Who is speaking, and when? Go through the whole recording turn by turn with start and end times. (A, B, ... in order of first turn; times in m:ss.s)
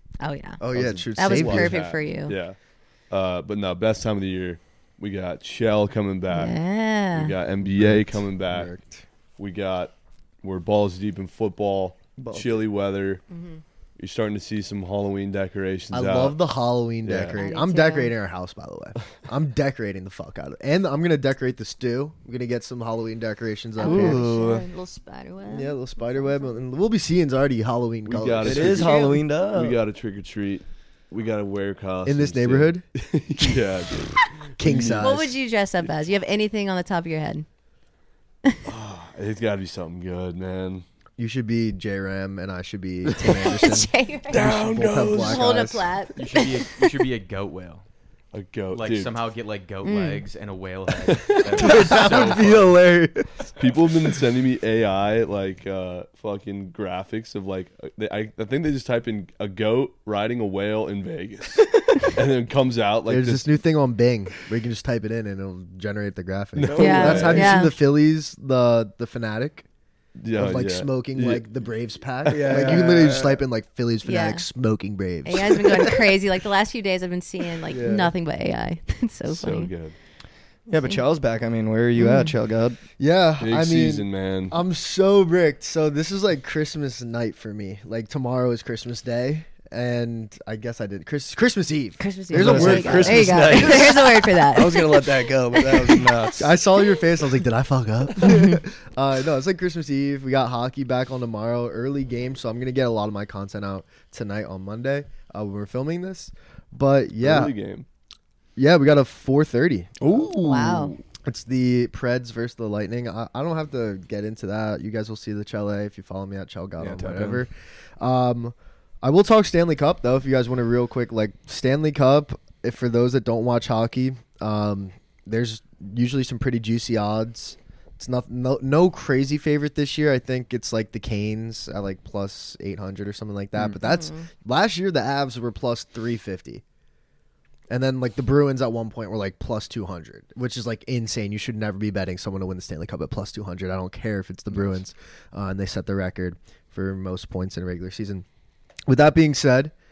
0:00.2-0:00.6 A
0:00.6-0:01.9 B
0:00.7-0:02.6 C
0:01.1-0:02.4 A
0:03.1-0:06.6 C
0:06.3-0:07.3 A
0:07.1-0:08.7 C
0:07.6-0:09.0 B
0:09.4-0:13.2 C
0:12.2-0:12.6 D
0:13.3-0:13.6 A
0:14.0-0:16.4 C
0:15.9-0:24.2 B
0:17.0-0:17.4 C
0:17.3-0:18.1 A
0:23.8-0:26.5 A
0:23.8-0:24.6 C
0:25.4-0:29.0 B
0:28.0-0:35.3 C
0:28.4-0:29.8 D
0:28.8-0:29.2 A
0:32.0-0:32.8 B
0:34.6-0:35.3 B
0:34.9-0:37.4 A
0:38.6-0:40.8 C
0:41.2-0:45.8 B
0:43.2-0:46.9 A
0:44.3-0:45.5 C
0:46.1-0:47.8 E
0:48.3-0:49.3 C
0:48.7-0:52.8 E
0:49.8-0:50.2 A
0:51.0-0:52.5 C
0:51.5-0:53.5 B
0:53.6-1:03.5 C
1:03.1-1:09.6 B
1:06.6-1:07.6 C
1:06.6-1:07.6 D
1:06.8-1:07.8 A
1:10.2-1:11.5 C
1:10.3-1:16.2 B
1:12.2-1:12.9 C
1:12.3-1:13.4 D
1:14.0-1:14.4 A
1:15.2-1:19.7 A
1:17.7-1:18.1 B
1:19.3-1:20.0 C
1:20.7-1:22.8 D
1:20.7-1:21.0 A
1:22.0-1:22.3 A
1:23.0-1:33.9 B
1:23.4-1:24.6 C
1:32.0-1:36.0 A
1:32.3-1:36.6 D
1:36.3-1:47.5 B
1:38.2-1:38.6 A
1:47.2-1:47.8 C
1:48.6-2:16.6 B
1:50.0-1:50.8 D
1:50.4-1:51.0 A
1:56.8-1:57.4 D
2:13.8-2:14.2 A
2:17.7-2:28.2 B
2:28.9-2:29.7 B